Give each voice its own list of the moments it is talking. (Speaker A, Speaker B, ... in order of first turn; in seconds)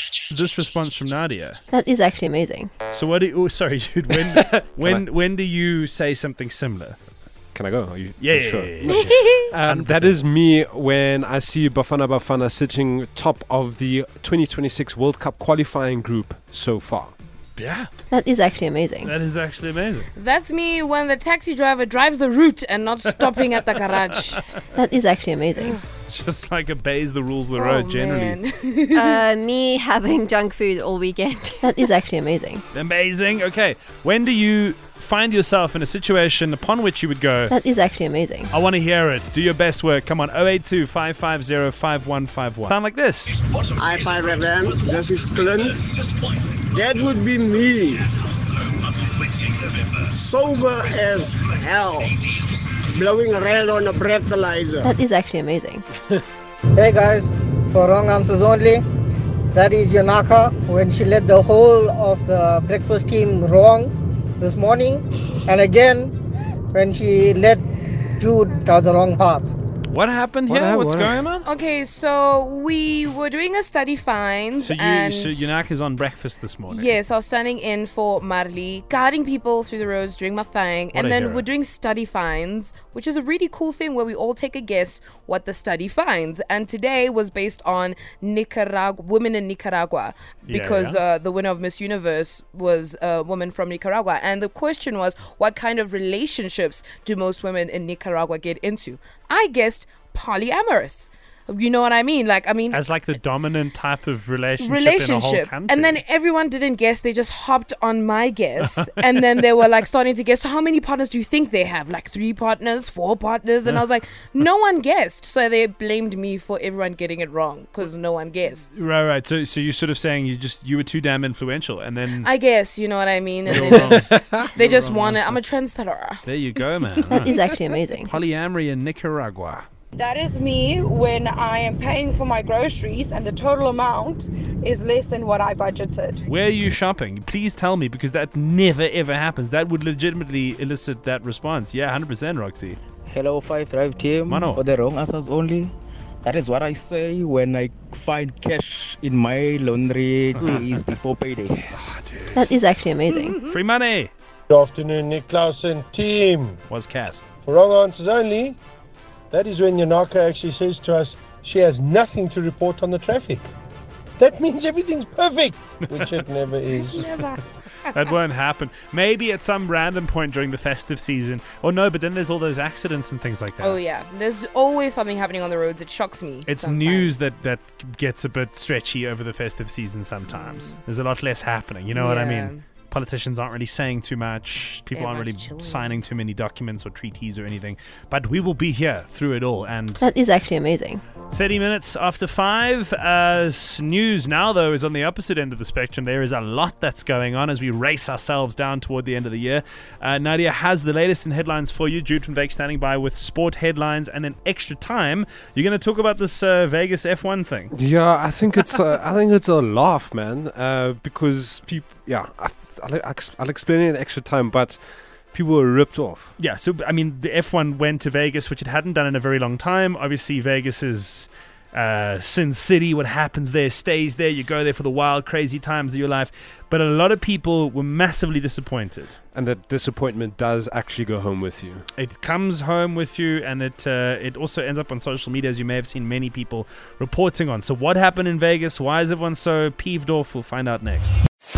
Speaker A: 0.3-1.6, 2.9-7.0, 8.2-9.1, 9.6-10.2, 17.6-17.9, 19.0-20.1, 23.1-24.4, 26.0-28.4, 32.7-37.5, 38.5-43.4, 69.9-71.5, 74.6-77.0, 80.9-81.5, 90.5-91.0, 102.7-106.0, 108.6-109.2, 118.7-122.3, 123.5-125.4, 126.2-127.4, 128.0-129.7, 136.3-142.8, 144.3-144.6, 150.4-150.9, 151.8-152.5, 153.4-154.1, 156.7-157.2, 167.9-173.8, 176.4-190.0, 191.3-207.7, 216.4-229.2, 232.0-241.1
Speaker B: 1.7-2.7, 18.1-19.1, 24.8-25.8, 28.9-32.6, 37.5-38.5, 54.8-55.9, 127.1-128.1, 152.3-153.4, 190.0-191.0
Speaker C: 4.8-5.0, 7.5-17.1, 70.5-71.2, 207.7-214.8, 215.3-216.3, 229.3-231.9
Speaker D: 20.2-24.4, 27.6-29.2, 71.5-75.5, 76.7-102.8, 104.6-118.7, 122.2-126.2, 166.7-167.4, 173.6-177.2, 180.3-180.8, 181.9-182.6, 184.9-185.9
Speaker E: 43.8-45.8, 46.7-48.1, 50.1-52.1, 52.9-54.9
Speaker F: 56.8-58.8, 59.5-66.1, 66.7-67.6, 68.2-69.5
Speaker G: 129.9-136.2
Speaker H: 143.1-145.7, 146.2-151.9
Speaker I: 154.5-156.6, 157.4-158.6, 159.3-163.4, 164.2-167.2